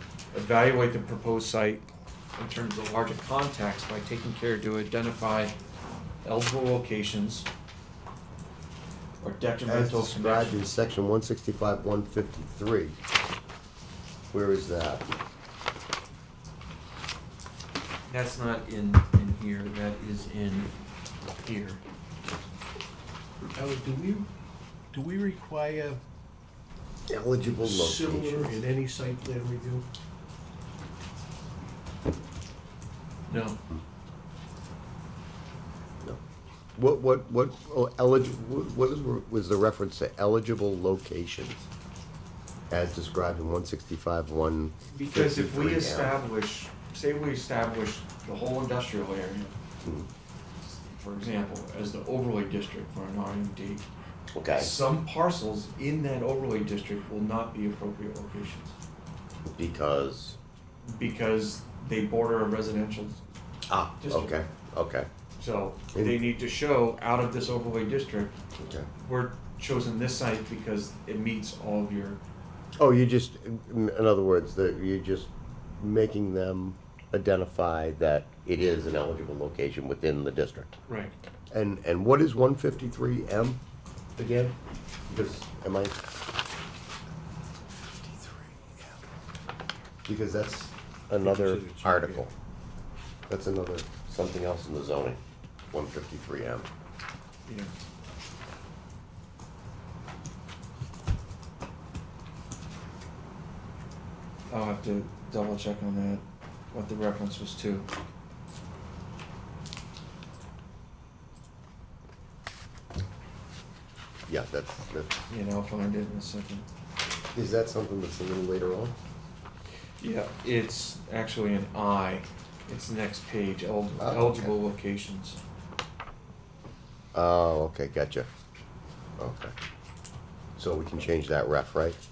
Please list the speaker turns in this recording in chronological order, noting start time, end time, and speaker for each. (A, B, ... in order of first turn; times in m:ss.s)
0:00.3-0:05.5 A
0:06.2-0:07.5 A
0:09.2-0:10.6 A
0:09.6-0:13.0 B
0:14.3-0:15.1 B
0:18.1-0:20.7 A
0:21.4-0:21.8 A
0:23.5-0:24.3 C
0:24.9-0:26.0 C
0:27.1-0:28.5 B
0:27.6-0:29.8 C
0:33.3-0:33.6 A
0:36.8-0:41.6 B
0:42.7-0:46.2 B
0:44.9-0:49.5 A
0:49.8-0:50.1 B
0:50.6-0:53.8 A
0:54.3-0:54.7 B
0:54.5-0:58.8 A
0:59.5-1:00.4 B
1:00.8-1:03.2 A
1:03.7-1:05.1 B
1:04.0-1:04.3 A
1:05.4-1:08.4 A
1:05.9-1:06.2 B
1:08.6-1:08.9 B
1:09.0-1:12.2 A
1:12.8-1:20.7 B
1:20.9-1:21.1 A
1:21.5-1:23.6 B
1:24.2-1:24.6 B
1:25.1-1:26.0 B
1:28.0-1:29.0 B
1:30.0-1:32.3 B
1:31.2-1:32.3 C
1:33.3-1:35.2 B
1:35.7-1:36.7 B
1:37.4-1:37.7 A
1:44.5-1:47.9 A
1:54.3-1:55.2 B
1:55.3-1:56.7 A
1:57.3-1:59.0 B
2:00.0-2:05.4 A
2:04.0-2:04.5 B
2:07.1-2:08.3 B
2:09.2-2:09.5 B
2:10.6-2:12.0 B